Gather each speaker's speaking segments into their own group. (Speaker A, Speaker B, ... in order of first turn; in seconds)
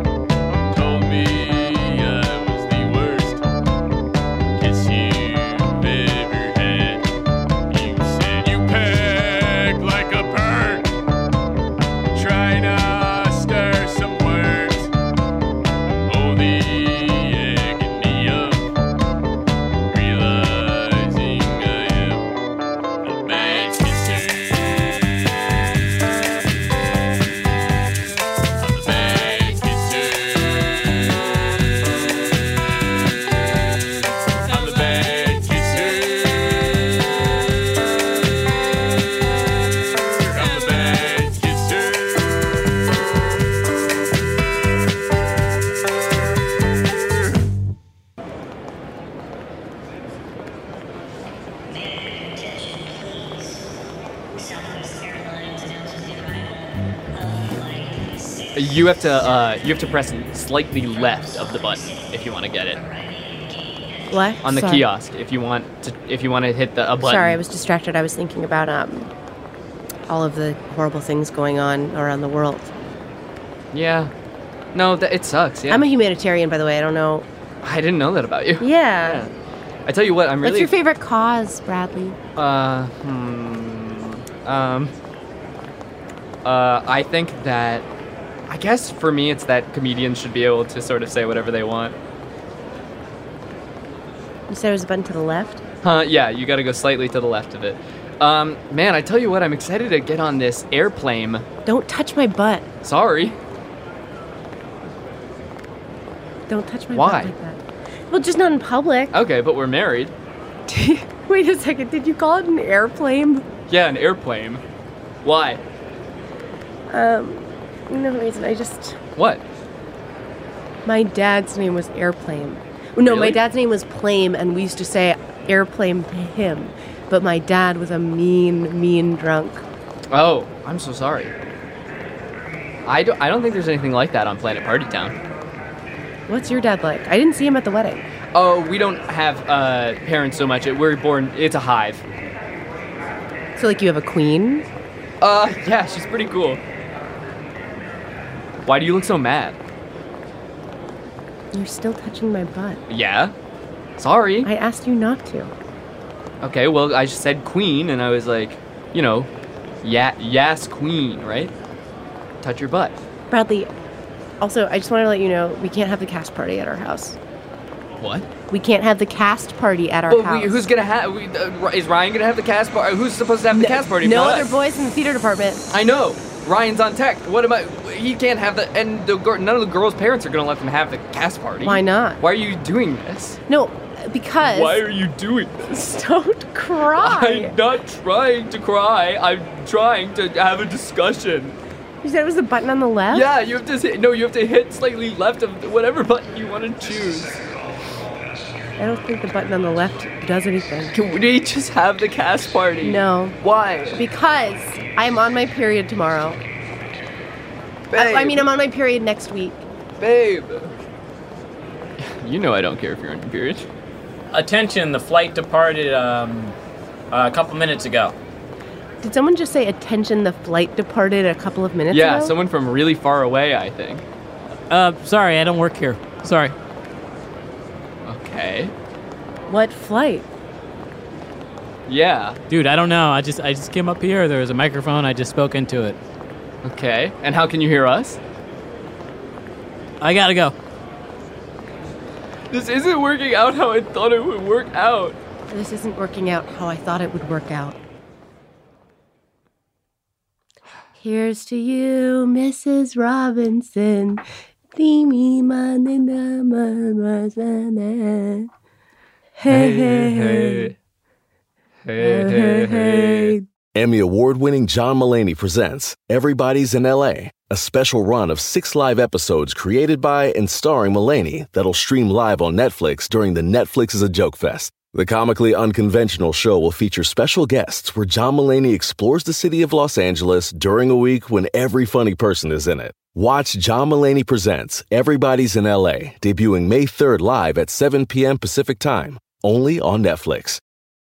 Speaker A: 0.5-3.4, 4.5-7.1, 7.7-11.0, 12.1-14.9, 16.1-18.7, 19.9-22.3, 23.0-25.0, 28.6-31.9, 34.5-37.1, 40.2-42.5
Speaker B: 58.5-62.8, 64.4-67.4, 73.7-74.1, 74.7-75.9, 77.6-79.3, 79.9-80.7, 82.4-84.9, 86.5-87.9, 88.5-92.0, 95.8-101.5, 102.8-103.4, 106.9-107.3, 109.1-110.1, 113.7-114.6, 115.2-115.6, 119.2-119.4, 123.0-123.4, 130.1-131.3, 132.8-135.2, 138.3-142.0, 145.2-146.6, 148.7-149.6, 152.9-153.3, 154.0-154.5, 156.4-159.3, 159.8-161.5, 162.4-163.0, 168.0-168.3, 170.1-174.5, 175.7-183.4, 184.4-185.8, 187.0-191.6, 193.1-197.4, 200.9-204.0, 207.9-208.5, 210.0-210.7, 212.0-213.7, 221.9-224.0, 228.1-228.7, 231.9-232.4, 236.6-238.2, 242.5-245.2, 259.5-260.7, 261.9-263.3
Speaker C: 64.1-64.8, 67.0-69.1, 70.1-72.7, 75.7-77.3, 78.6-79.2, 80.4-82.2, 94.5-95.6, 101.7-102.7, 106.5-107.6, 108.1-109.1, 110.7-113.5, 116.9-119.0, 120.9-129.6, 136.3-138.0, 143.6-144.7, 151.5-152.8, 154.4-155.5, 163.3-163.7, 164.4-167.2, 168.5-170.6, 173.5-175.7, 181.6-182.2, 183.5-184.8, 185.7-187.6, 192.0-193.3, 198.8-200.9, 202.8-203.4, 203.9-206.4, 207.9-209.7, 219.0-222.3, 229.5-230.3, 245.5-247.8, 251.0-258.5, 259.4-260.7, 262.0-263.4
Speaker D: 214.3-216.6, 217.1-218.2, 224.7-226.6, 232.5-236.0, 240.0-240.6
Speaker E: 263.8-290.6